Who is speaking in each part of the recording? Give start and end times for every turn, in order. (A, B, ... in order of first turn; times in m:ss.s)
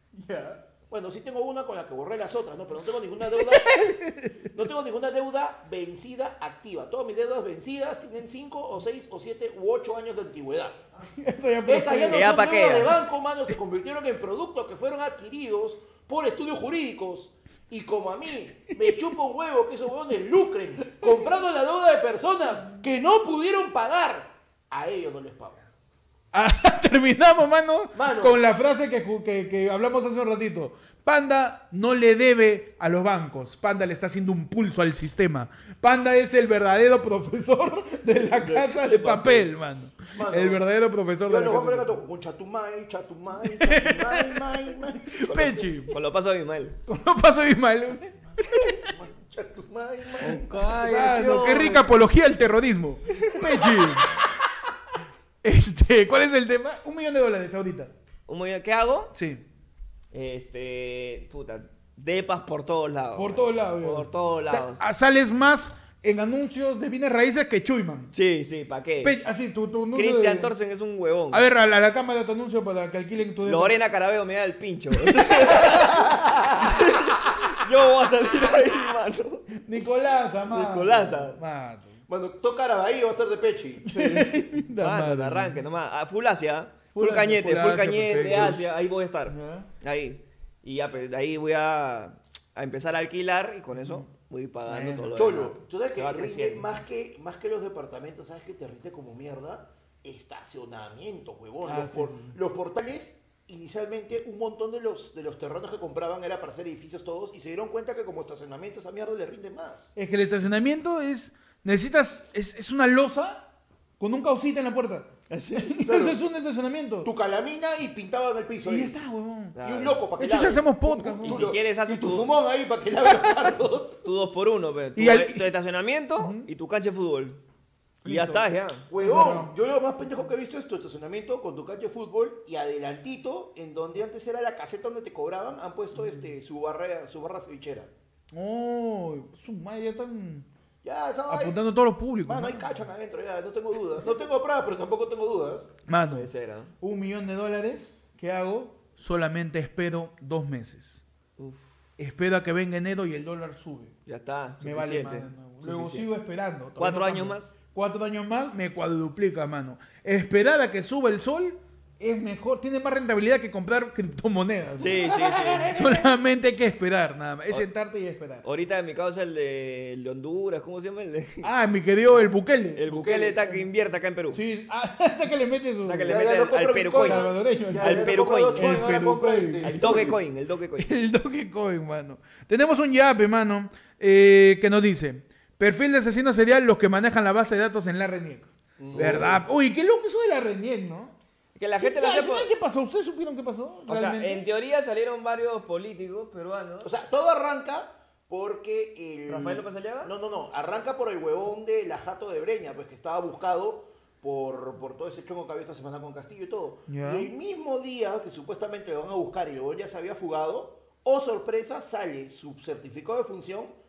0:00.1-0:00.6 A
0:00.9-0:04.0 B
0:03.3-0:04.4 A
0:04.5-0:10.8 B
0:11.1-0:12.4 A
0:11.6-0:25.6 B
0:12.1-0:12.9 C
0:26.3-0:42.0 A
0:27.9-0:28.4 B
0:38.4-0:39.5 C
0:40.1-0:40.6 B
0:41.2-0:45.5 B
0:43.4-0:46.0 A
0:45.3-0:46.8 C
0:46.9-0:48.7 A
0:48.6-0:51.8 B
0:50.2-0:54.2 A
0:50.5-0:51.8 C
0:53.4-0:53.8 B
0:55.4-0:57.9 A
0:58.3-0:59.1 C
0:59.1-0:59.4 A
1:00.1-1:04.8 C
1:03.1-1:08.1 A
1:08.1-1:09.2 C
1:09.0-1:10.5 A
1:09.9-1:11.4 C
1:11.3-1:13.8 A
1:13.4-1:19.5 C
1:15.4-1:15.7 A
1:16.1-1:16.5 B
1:19.5-1:22.0 A
1:20.5-1:21.4 C
1:22.1-1:23.9 B
1:23.8-1:25.6 A
1:23.9-1:36.7 C
1:26.9-1:28.7 A
1:29.3-1:29.7 A
1:33.8-1:34.1 A
1:34.6-1:35.2 A
1:35.2-1:49.9 B
1:41.6-1:42.4 A
1:50.0-1:53.5 A
1:54.0-1:57.1 A
1:55.3-1:55.7 C
1:55.8-1:56.2 B
1:57.0-1:59.0 B
1:58.6-1:59.6 A
1:59.5-2:00.0 C
1:59.6-2:04.0 B
2:00.2-2:01.5 A
2:01.2-2:02.3 C
2:03.1-2:03.4 A
2:04.0-2:07.4 C
2:04.9-2:05.5 A
2:06.2-2:06.5 A
2:08.0-2:08.4 A
2:08.0-2:08.8 C
2:08.9-2:17.9 B
2:09.0-2:09.5 A
2:18.3-2:20.5 A
2:20.8-2:21.6 B
2:21.3-2:22.7 A
2:22.2-2:25.7 B
2:25.9-2:26.3 A
2:26.1-2:26.7 C
2:26.8-2:31.0 A
2:31.4-2:31.7 C
2:32.0-2:33.9 A
2:34.0-2:36.1 C
2:34.6-2:45.1 A
2:36.8-2:37.5 C
2:44.8-2:45.8 C
2:45.7-2:48.4 A
2:48.4-2:51.5 C
2:51.4-2:52.8 A
2:52.8-2:54.4 C
2:52.9-2:53.6 B
2:54.3-2:56.2 A
2:55.8-2:57.2 C
2:56.0-3:00.2 B
2:56.9-3:00.1 A
2:57.8-2:58.8 C
2:59.6-3:00.9 C
3:00.8-3:11.1 A
3:08.8-3:09.4 B
3:11.5-3:12.5 C
3:11.8-3:14.4 A
3:13.9-3:16.9 C
3:16.8-3:33.7 B
3:19.3-3:20.1 C
3:26.9-3:27.3 A